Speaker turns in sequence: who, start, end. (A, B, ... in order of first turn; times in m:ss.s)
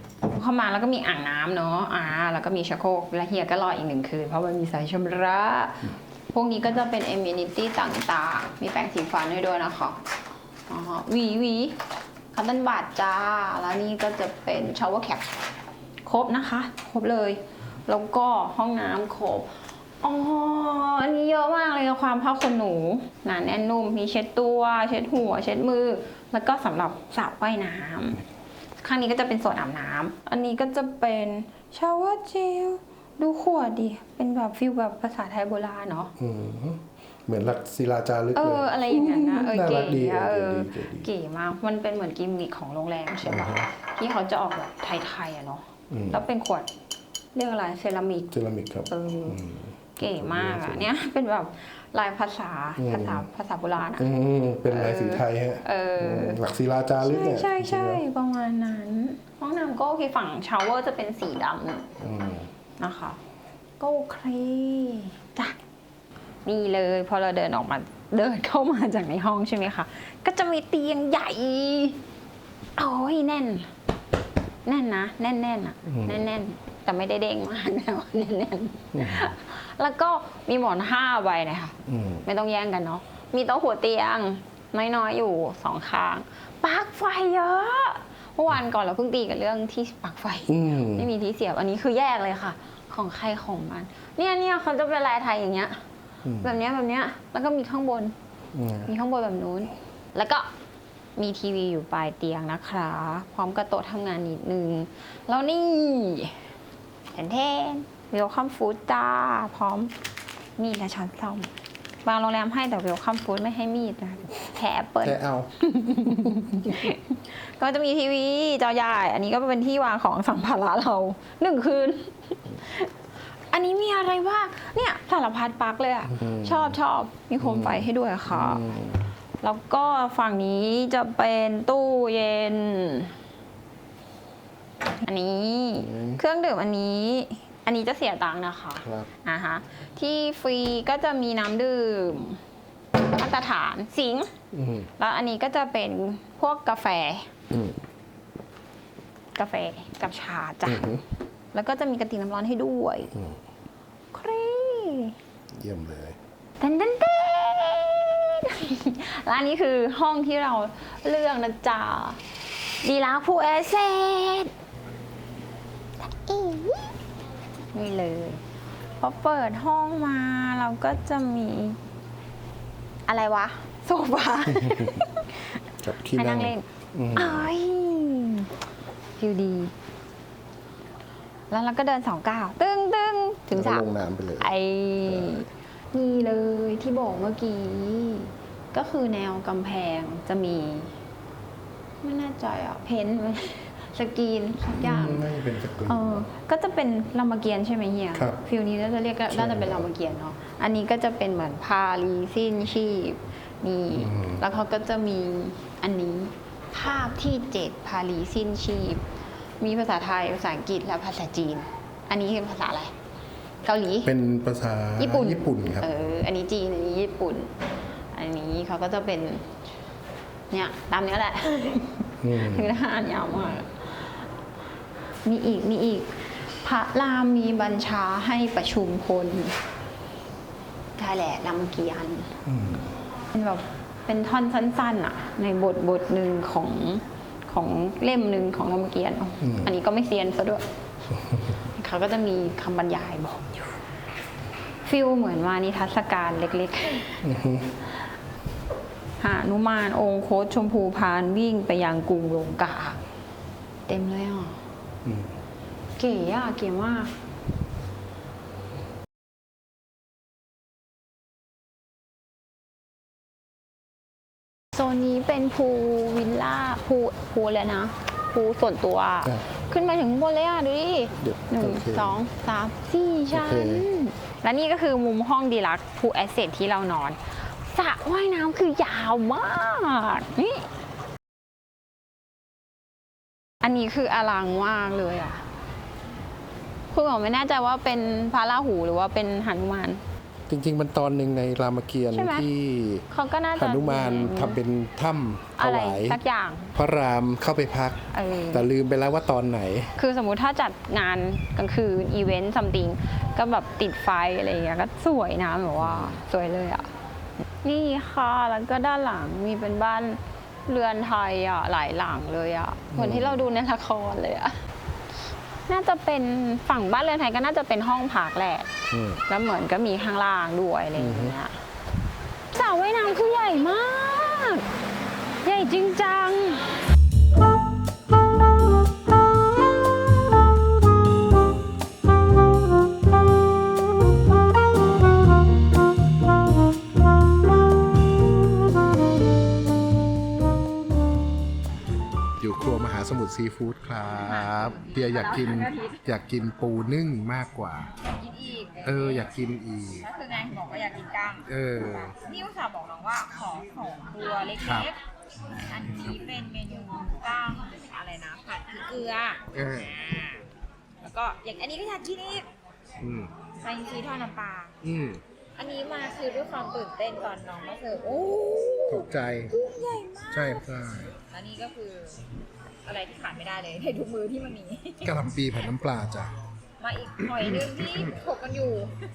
0:00.2-0:10.0 A
0:10.7-0:11.8 A
0:12.3-0:15.5 A
0:16.0-0:28.2 A
0:28.8-0:36.1 A
0:36.2-0:41.1 B
0:38.4-0:46.7 A
0:43.2-0:43.7 B
0:45.9-0:46.2 B
0:47.3-0:48.3 A
0:48.3-0:50.9 B
0:48.9-0:49.4 A
0:50.0-0:54.1 A
0:52.8-0:53.2 B
0:54.0-0:58.0 B
0:54.7-0:56.4 A
0:57.0-1:01.9 A
1:02.0-1:02.5 B
1:02.8-1:03.2 A
1:03.8-1:05.6 A
1:06.4-1:12.0 A
1:12.8-1:13.7 A
1:14.6-1:35.8 A
1:15.8-1:16.3 B
1:18.9-1:19.3 B
1:21.8-1:22.2 B
1:30.5-1:31.1 B
1:36.2-1:36.6 B
1:36.4-1:38.2 A
1:38.5-1:38.9 B
1:38.8-1:40.5 A
1:41.2-1:46.5 A
1:47.1-1:49.9 A
1:50.6-1:51.5 A
1:52.0-2:02.9 A
1:55.0-1:55.5 B
2:03.5-2:08.6 A
2:06.1-2:06.8 B
2:07.4-2:09.0 B
2:09.4-2:13.2 A
2:15.0-2:22.4 A
2:15.8-2:16.2 B
2:18.8-2:19.1 B
2:23.1-2:24.3 A
2:24.5-2:24.9 B
2:25.0-2:27.3 A
2:27.5-2:27.8 B
2:29.4-2:30.9 A
2:30.7-2:31.0 B
2:31.5-2:33.1 A
2:34.1-2:35.2 A
2:35.5-2:36.2 B
2:36.6-2:42.2 A
2:42.8-2:44.5 A
2:46.0-2:46.9 A
2:47.7-2:48.4 A
2:49.0-2:51.8 A
2:53.1-2:55.4 A
2:54.5-2:55.0 B
2:55.8-2:57.5 B
2:56.1-2:58.5 A
2:59.2-2:59.7 A
3:01.5-3:03.9 A
3:03.5-3:05.4 B
3:04.4-3:11.0 A
3:12.0-3:15.2 A
3:14.8-3:16.3 B
3:15.9-3:29.1 A
3:18.1-3:18.4 B
3:19.3-3:19.9 B
3:24.0-3:24.4 B
3:29.6-3:32.9 A
3:33.6-3:34.1 A
3:34.0-3:35.9 B
3:35.0-3:37.5 A
3:38.1-3:39.5 A
3:40.5-3:44.2 A
3:42.2-3:42.8 B
3:45.2-3:49.6 A
3:51.0-3:52.4 A
3:52.5-3:53.0 B
3:53.3-4:00.6 A
3:59.4-3:59.7 B
4:01.7-4:03.8 A
4:04.8-4:07.2 A
4:07.2-4:07.7 B
4:09.2-4:13.0 A
4:13.9-4:14.6 A
4:15.0-4:15.4 B
4:16.0-4:17.1 A
4:24.7-4:40.6 A
4:31.2-4:32.2 B
4:33.3-4:33.9 B
4:43.6-4:45.5 A
4:46.9-4:50.0 A
4:50.5-4:56.2 B
4:52.1-4:52.5 A
4:53.1-4:54.6 A
4:55.6-4:56.8 A
4:56.8-5:00.0 B
4:58.1-4:58.7 A
5:00.0-5:06.9 A
5:05.8-5:06.2 B
5:07.6-5:14.7 A
5:12.9-5:13.4 B
5:15.7-5:18.7 A
5:18.9-5:19.2 B
5:19.3-5:21.6 A
5:21.0-5:21.4 B
5:22.5-5:24.7 A
5:25.4-5:26.6 A
5:42.4-5:47.9 B
5:44.3-5:44.6 A
5:44.8-5:46.0 C
5:48.2-5:49.3 C
5:48.8-5:50.1 B
5:50.1-5:51.3 C
5:50.2-5:51.4 A
5:51.4-5:52.2 B
5:52.3-5:54.9 C
5:54.6-5:54.9 B
5:55.7-6:00.4 C
5:59.5-6:00.0 B
6:01.0-6:02.5 C
6:03.0-6:03.3 B
6:03.6-6:04.7 C
6:04.8-6:05.2 B
6:05.6-6:10.6 C
6:08.9-6:09.6 B
6:09.7-6:10.6 A
6:10.3-6:11.1 B
6:11.3-6:12.2 C
6:12.8-6:15.2 C
6:15.0-6:16.3 B
6:16.8-6:19.0 C
6:17.3-6:18.2 B